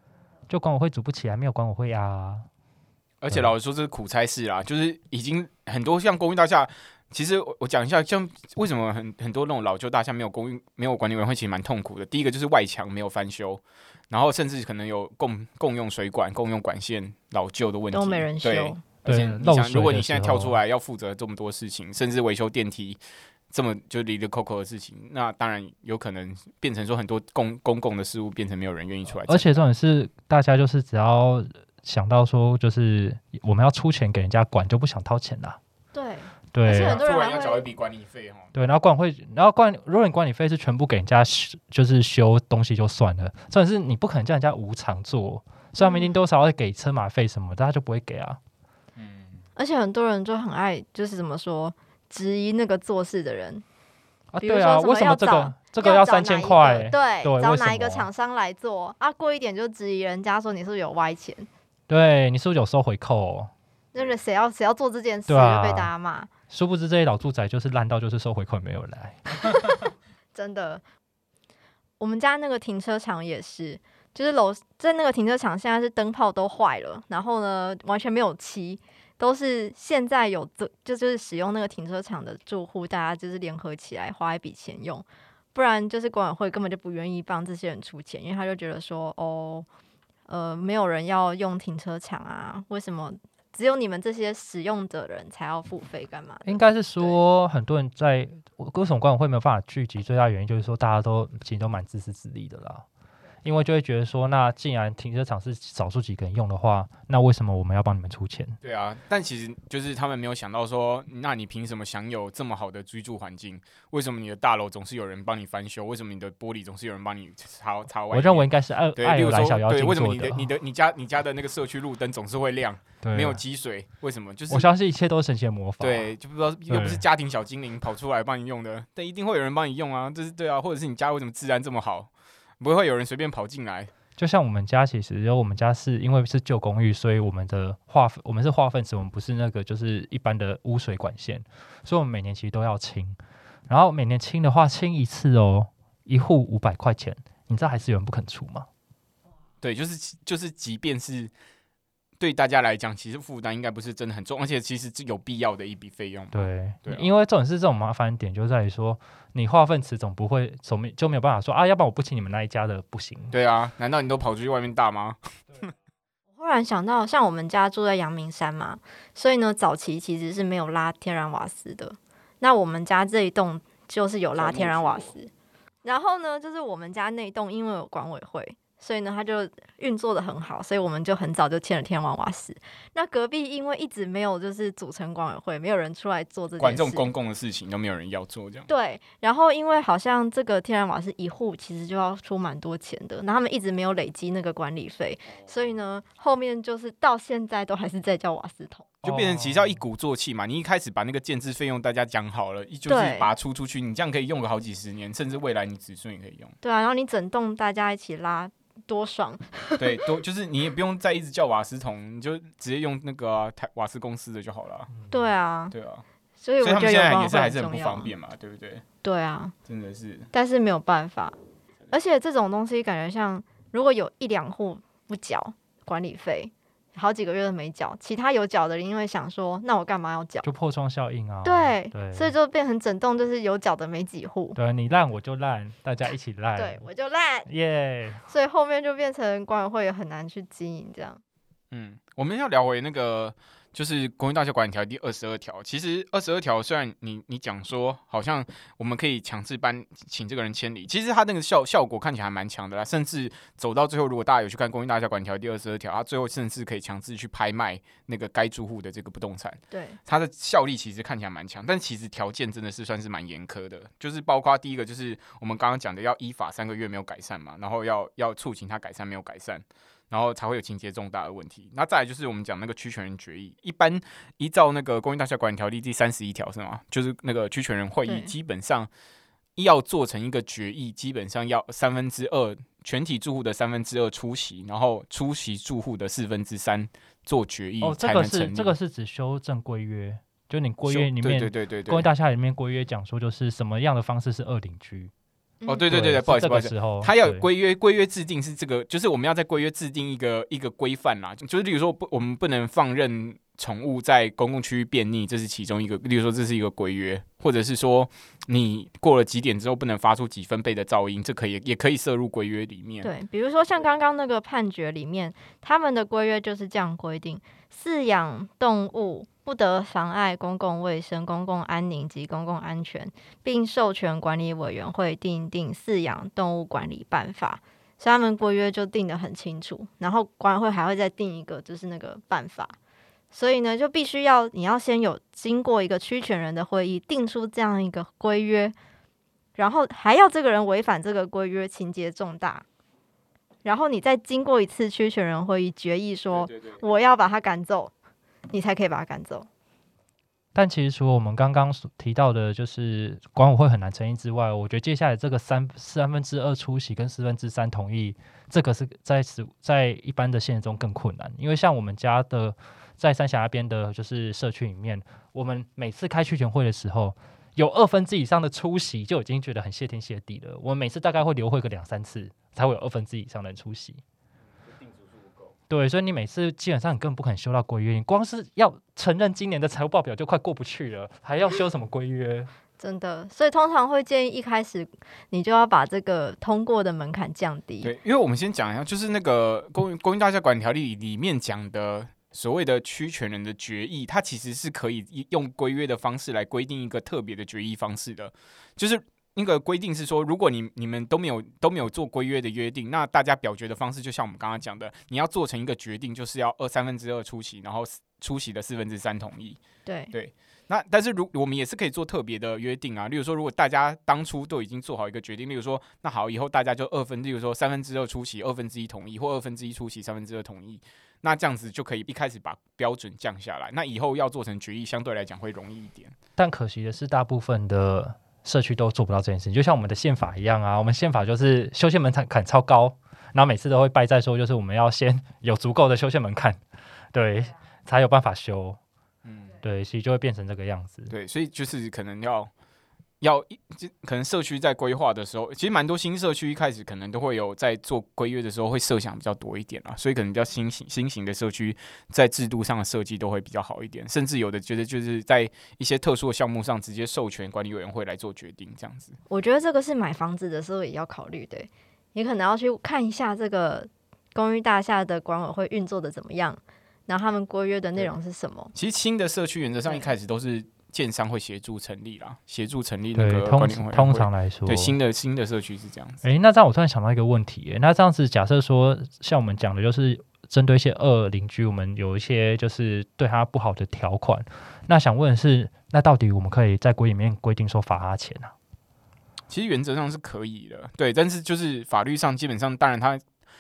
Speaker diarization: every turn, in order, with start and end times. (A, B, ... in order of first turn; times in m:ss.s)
0:00.5-0:02.5 A
0:03.2-0:23.0 B
0:17.9-0:18.8 C
0:19.0-0:20.6 A
0:23.5-0:29.6 B
0:29.2-0:35.6 A
0:35.9-0:37.7 C
0:36.5-0:37.0 A
0:36.8-0:38.5 B
0:38.5-0:48.4 A
0:45.8-0:46.2 C
0:49.0-0:49.4 B
0:49.6-0:53.6 C
0:54.3-0:58.1 A
0:54.4-1:01.5 C
1:01.9-1:03.5 A
1:03.9-1:06.3 C
1:05.3-1:05.9 A
1:06.5-1:09.3 A
1:10.3-1:10.8 C
1:12.0-1:29.7 C
1:30.3-1:37.2 C
1:36.4-1:42.8 A
1:43.4-1:48.6 A
1:48.6-2:04.7 B
1:58.1-2:00.4 A
2:03.0-2:03.4 A
2:04.5-2:06.1 A
2:05.8-2:13.9 B
2:06.7-2:07.0 A
2:14.2-2:23.2 A
2:23.7-2:28.7 A
2:29.6-2:31.3 B
2:32.2-2:37.1 B
2:36.3-2:43.3 A
2:43.3-2:45.7 B
2:46.4-2:55.3 C
2:54.3-2:55.1 B
2:55.8-3:07.0 C
3:06.6-3:08.7 B
3:08.7-3:18.9 C
3:19.0-3:19.8 A
3:19.0-3:26.5 B
3:22.9-3:23.3 C
3:26.6-3:30.0 C
3:29.8-3:34.9 B
3:35.1-3:35.7 C
3:35.7-3:36.0 B
3:36.4-3:38.1 C
3:36.6-3:38.8 B
3:39.0-3:39.5 C
3:39.6-3:40.3 B
3:40.3-3:41.4 C
3:41.9-3:50.5 C
3:50.4-3:52.3 A
3:51.4-3:54.6 C
3:54.6-3:56.8 A
3:56.6-3:57.5 C
3:57.5-3:58.2 A
3:58.3-4:01.2 C
4:01.7-4:38.9 B
4:19.7-4:20.0 C
4:38.0-4:38.3 C
4:39.6-4:48.7 B
4:47.8-4:55.1 A
4:50.8-4:52.1 B
4:55.6-4:55.9 C
4:55.6-5:13.1 B
4:55.9-4:57.4 A
5:13.0-5:32.7 C
5:33.3-5:38.7 C
5:39.6-5:42.6 C
5:43.6-5:47.9 C
5:46.3-5:46.8 B
5:48.5-5:49.5 C
5:50.5-6:14.0 A
6:15.7-6:22.5 A
6:22.8-6:27.9 C
6:27.8-6:49.6 B
6:49.8-6:50.1 C
6:50.1-7:06.2 B
7:06.4-7:16.6 A
7:17.1-7:18.8 A
7:19.2-7:19.5 B
7:19.6-7:21.1 A
7:21.1-7:22.5 B
7:23.2-7:39.2 B
7:39.3-7:48.7 C
7:48.7-7:56.2 B
7:53.2-7:54.9 A
7:56.2-8:08.5 A
8:09.5-8:13.2 B